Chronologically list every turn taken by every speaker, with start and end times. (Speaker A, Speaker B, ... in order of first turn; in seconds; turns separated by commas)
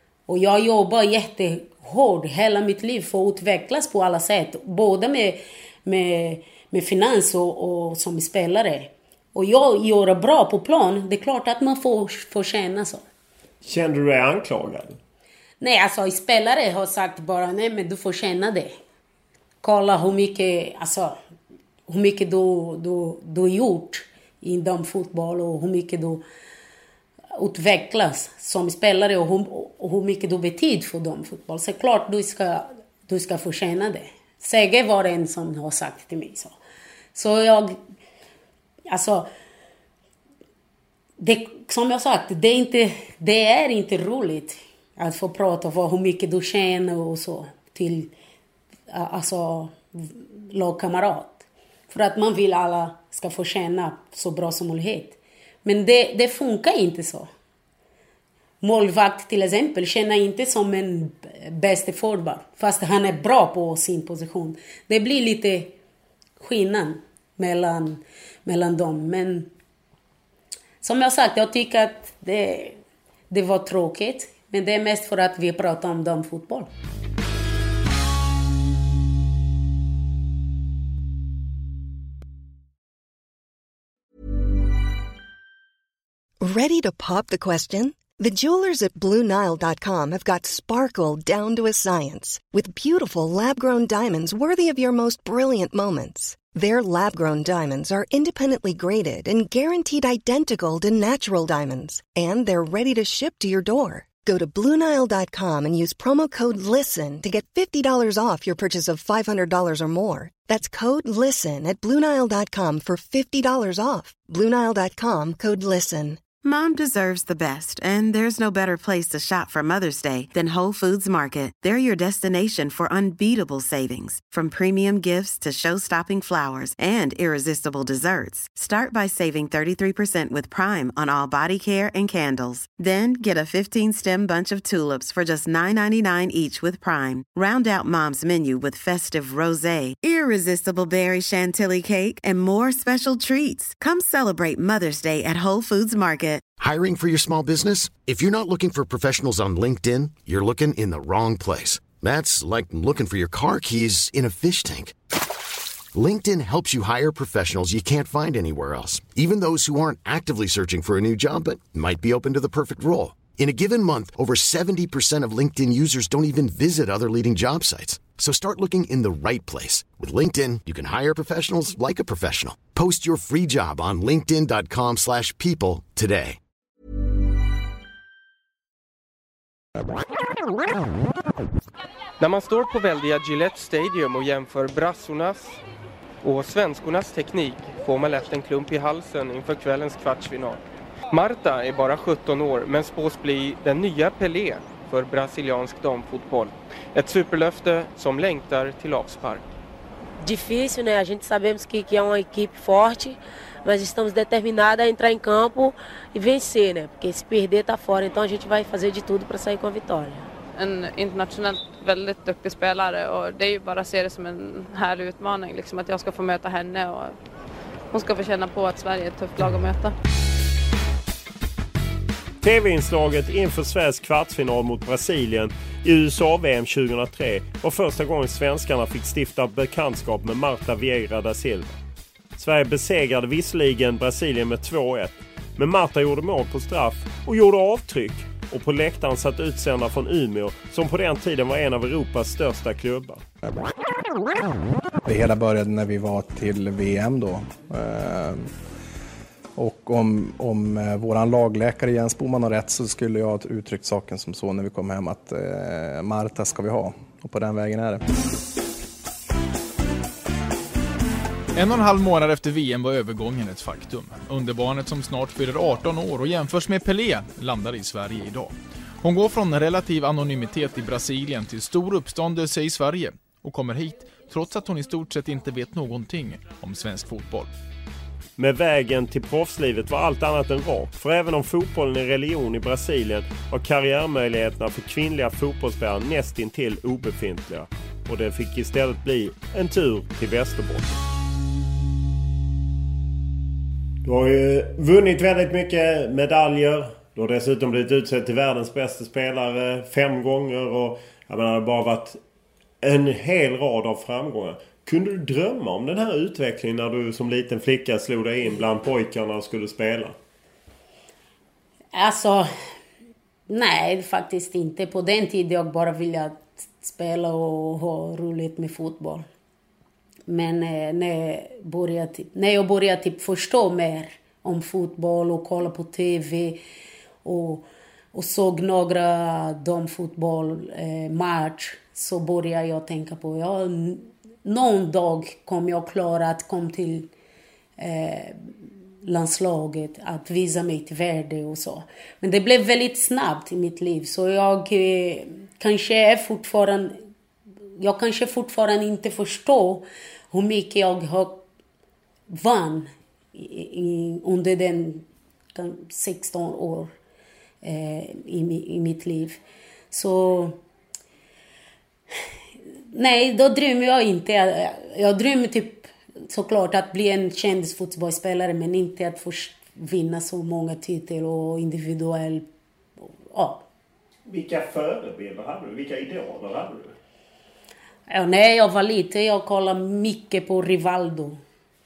Speaker A: 0.3-13.0, Speaker B: 13.6-15.0, Speaker A: 15.6-18.7, Speaker A: 19.6-21.1, Speaker A: 21.9-26.2, Speaker A: 27.4-36.5, Speaker A: 37.1-37.8, Speaker A: 38.9-39.3, Speaker A: 41.2-48.1, Speaker A: 48.9-57.3, Speaker A: 58.6-65.7, Speaker A: 66.4-69.5, Speaker A: 70.8-72.8, Speaker A: 73.3-76.7, Speaker C: 86.4-116.2, Speaker D: 116.4-146.5, Speaker E: 146.6-154.9, Speaker E: 155.9-176.4, Speaker F: 182.2-185.6, Speaker F: 186.2-190.6, Speaker F: 191.1-199.4, Speaker G: 200.2-210.3, Speaker H: 210.5-217.2, Speaker H: 217.9-219.9, Speaker B: 222.4-231.8, Speaker B: 232.4-243.2, Speaker I: 245.0-248.5, Speaker I: 249.6-258.1, Speaker J: 261.5-277.5, Speaker B: 278.4-290.9, Speaker B: 294.0-302.2, Speaker B: 302.8-310.1, Speaker A: 311.9-312.5, Speaker A: 313.5-319.2, Speaker A: 320.3-326.6, Speaker A: 327.2-337.1, Speaker A: 337.8-338.5, Speaker A: 339.0-347.0, Speaker A: 347.8-351.4, Speaker A: 352.3-355.0, Speaker A: 355.5-356.9, Speaker A: 357.6-359.4, Speaker A: 359.9-360.6, Speaker A: 362.9-372.4, Speaker A: 373.3-373.6, Speaker B: 374.2-376.9, Speaker A: 378.1-381.4